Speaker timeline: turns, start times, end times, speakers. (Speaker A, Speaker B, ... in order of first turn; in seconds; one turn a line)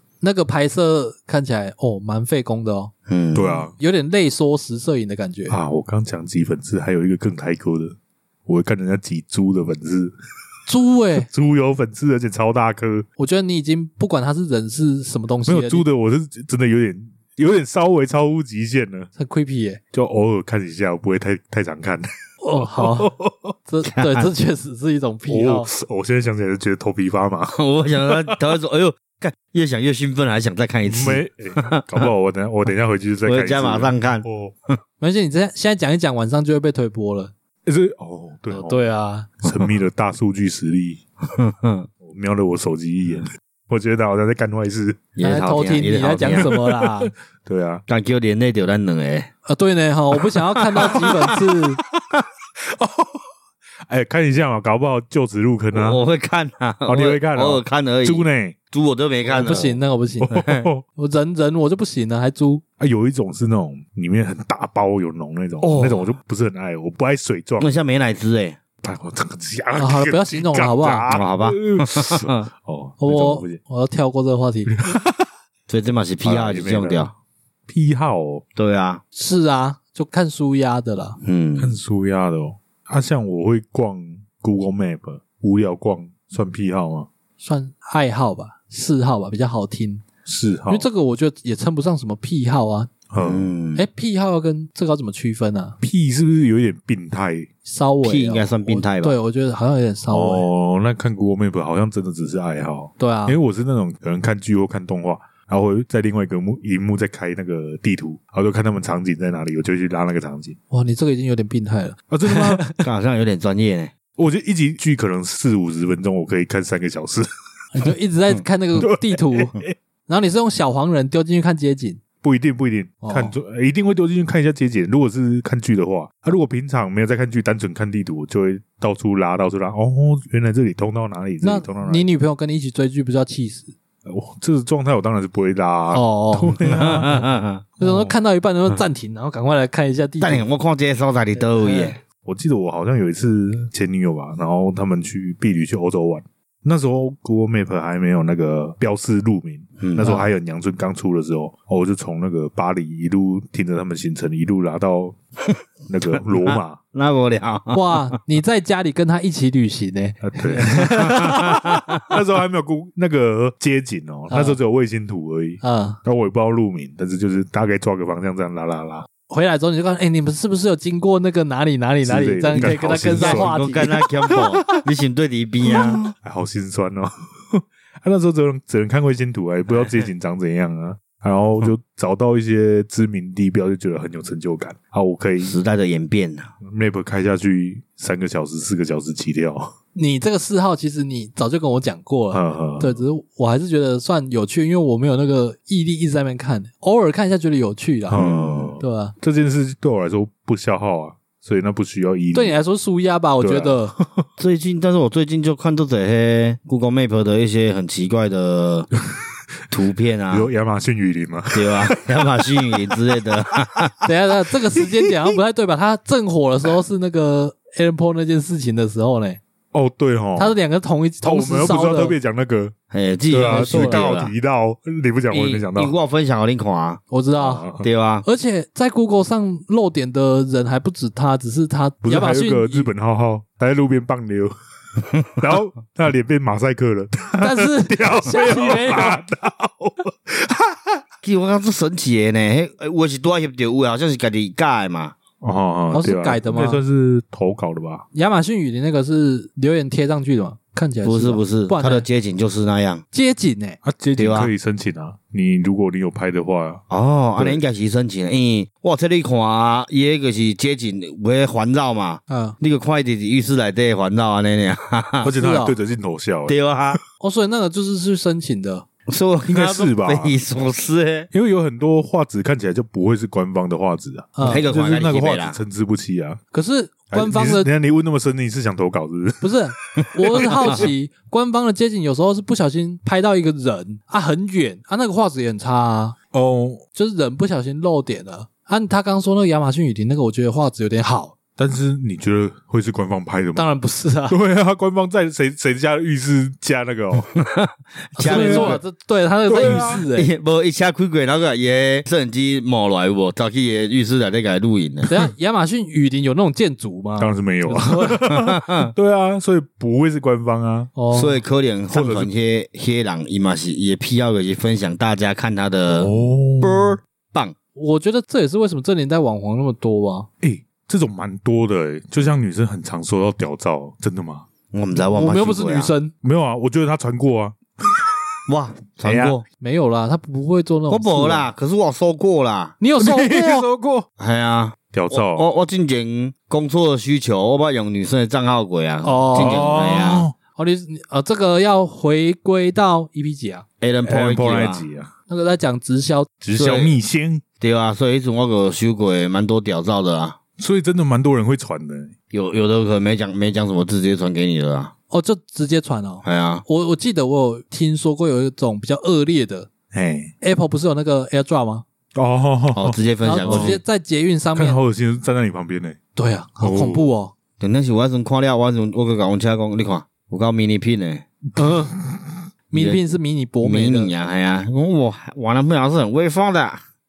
Speaker A: 0.2-2.9
Speaker B: 3.1-3.7
Speaker C: 3.3-3.7
Speaker A: 3.8-5.5
Speaker C: 5.5-8.0
Speaker C: 8.5-10.1
Speaker A: 10.7-11.3
Speaker C: 11.2-13.1
Speaker A: 13.2-15.8
Speaker C: 15.5-19.1
Speaker A: 19.1-19.8
Speaker C: 19.9-23.1
Speaker A: 22.4-23.1
Speaker A: 23.7-25.7
Speaker B: 23.8-24.3
Speaker C: 25.3-28.4
Speaker B: 27.5-32.1
Speaker C: 30.8-34.5
Speaker B: 33.2-34.7
Speaker A: 35.0-37.3
Speaker C: 37.6-38.8
Speaker A: 38.5-39.3
Speaker C: 39.4-41.0
Speaker B: 41.2-41.9
Speaker C: 42.0-45.0
Speaker B: 45.1-46.5
Speaker A: 45.2-47.1
Speaker C: 46.3-47.8
Speaker B: 47.9-49.3
Speaker A: 49.5-51.8
Speaker B: 50.5-51.1
Speaker C: 52.7-53.2
Speaker C: 53.9-56.0
Speaker B: 55.7-59.7
Speaker C: 56.9-58.6
Speaker C: 59.3-59.8
Speaker A: 59.4-60.3
Speaker B: 60.3-60.7
Speaker C: 60.3-60.8
Speaker A: 61.0-62.6
Speaker C: 62.8-67.7
Speaker B: 65.6-66.1
Speaker B: 67.6-68.6
Speaker C: 68.8-73.6
Speaker A: 69.8-71.0
Speaker B: 71.1-72.5
Speaker A: 73.0-74.7
Speaker C: 74.7-75.2
Speaker B: 75.7-77.1
Speaker C: 76.2-77.1
Speaker C: 77.7-78.4
Speaker B: 78.5-79.0
Speaker A: 79.1-81.2
Speaker B: 81.2-81.7
Speaker C: 81.6-87.1
Speaker A: 87.4-90.0
Speaker C: 90.2-90.9
Speaker A: 90.7-92.9
Speaker C: 93.1-93.5
Speaker B: 93.2-93.8
Speaker A: 93.7-95.8
Speaker C: 95.8-97.5
Speaker A: 97.6-100.5
Speaker B: 98.0-99.2
Speaker C: 100.1-110.6
Speaker A: 103.0-103.3
Speaker A: 110.7-112.8
Speaker C: 112.1-112.6
Speaker B: 112.8-113.9
Speaker C: 114.2-117.3
Speaker A: 117.7-119.5
Speaker C: 118.8-119.7
Speaker A: 120.1-122.0
Speaker C: 122.2-132.1
Speaker A: 123.0-123.3
Speaker A: 131.4-133.7
Speaker C: 134.0-137.2
Speaker A: 135.9-136.6
Speaker B: 136.6-137.6
Speaker C: 137.8-138.1
Speaker A: 137.8-140.4
Speaker B: 140.2-142.0
Speaker A: 141.5-141.9
Speaker C: 142.2-155.2
Speaker B: 149.8-150.2
Speaker C: 155.9-156.8
Speaker B: 156.1-158.2
Speaker A: 157.7-161.4
Speaker C: 160.2-169.1
Speaker B: 160.5-162.0
Speaker A: 164.3-164.6
Speaker A: 165.6-166.0
Speaker A: 169.2-173.9
Speaker C: 172.0-174.8
Speaker B: 172.5-176.0
Speaker C: 175.6-185.6
Speaker B: 185.4-186.5
Speaker C: 186.6-189.7
Speaker A: 189.9-198.2
Speaker C: 192.3-193.0
Speaker C: 198.1-202.6
Speaker B: 198.1-198.8
Speaker A: 198.8-199.1
Speaker A: 202.3-203.9
Speaker C: 203.4-204.3
Speaker B: 204.4-208.9
Speaker B: 209.7-210.5
Speaker C: 210.3-212.9
Speaker B: 211.5-213.9
Speaker C: 213.6-213.9
Speaker A: 214.0-219.4
Speaker C: 219.7-220.6
Speaker A: 220.4-222.1
Speaker C: 221.2-222.7
Speaker B: 222.9-224.3
Speaker C: 223.3-225.9
Speaker A: 223.4-224.1
Speaker B: 225.3-227.0
Speaker A: 227.1-227.7
Speaker C: 227.4-227.8
Speaker B: 227.8-228.2
Speaker A: 228.2-232.9
Speaker C: 232.0-241.0
Speaker A: 237.4-239.2
Speaker B: 241.2-245.2
Speaker C: 245.4-248.0
Speaker A: 245.9-246.8
Speaker A: 248.1-252.1
Speaker B: 251.0-253.0
Speaker A: 253.1-253.8
Speaker C: 253.8-256.8
Speaker B: 254.2-254.5
Speaker B: 256.9-265.3
Speaker A: 262.3-262.6
Speaker C: 265.2-267.0
Speaker A: 265.4-265.7
Speaker B: 266.5-267.0
Speaker A: 267.2-268.8
Speaker B: 269.1-271.3
Speaker C: 269.5-270.3
Speaker C: 271.3-276.4
Speaker A: 274.4-274.6
Speaker B: 274.4-275.6
Speaker A: 276.5-277.7
Speaker C: 277.1-280.9
Speaker A: 279.4-286.1
Speaker C: 286.3-286.8
Speaker A: 286.9-291.4
Speaker C: 291.6-293.8
Speaker A: 293.6-294.4
Speaker C: 294.3-297.3
Speaker B: 297.3-298.8
Speaker A: 298.2-300.3
Speaker C: 298.2-298.8
Speaker C: 299.5-300.1
Speaker B: 299.6-305.1
Speaker A: 305.1-308.2
Speaker C: 307.2-310.9
Speaker B: 308.2-308.9
Speaker A: 310.9-311.4
Speaker B: 311.1-317.5
Speaker C: 311.9-312.3
Speaker C: 315.9-317.0
Speaker A: 317.7-320.3
Speaker C: 320.4-324.5
Speaker B: 324.7-325.9
Speaker A: 325.1-326.1
Speaker C: 326.2-328.1
Speaker B: 328.5-329.4
Speaker C: 329.0-329.4
Speaker A: 329.6-331.5
Speaker B: 330.9-332.8
Speaker A: 332.8-333.7
Speaker C: 333.0-334.1
Speaker B: 334.2-340.2
Speaker C: 334.9-335.4
Speaker A: 339.0-339.7
Speaker C: 339.3-340.3
Speaker A: 340.6-343.6
Speaker B: 343.8-344.9
Speaker C: 344.1-345.1
Speaker A: 345.3-346.3
Speaker C: 346.4-347.4
Speaker B: 346.5-347.0
Speaker B: 347.6-350.4
Speaker C: 350.6-352.1
Speaker B: 352.3-354.9
Speaker A: 355.1-359.7
Speaker B: 356.2-356.6
Speaker C: 359.9-360.3
Speaker A: 360.4-361.8
Speaker C: 362.1-363.8
Speaker B: 362.7-363.8
Speaker A: 363.2-364.8
Speaker C: 364.6-366.0
Speaker A: 366.1-367.3
Speaker C: 366.6-367.1
Speaker B: 367.6-371.2
Speaker A: 371.6-371.9
Speaker C: 371.6-372.2
Speaker A: 372.7-374.1
Speaker B: 372.7-373.0
Speaker B: 373.6-376.8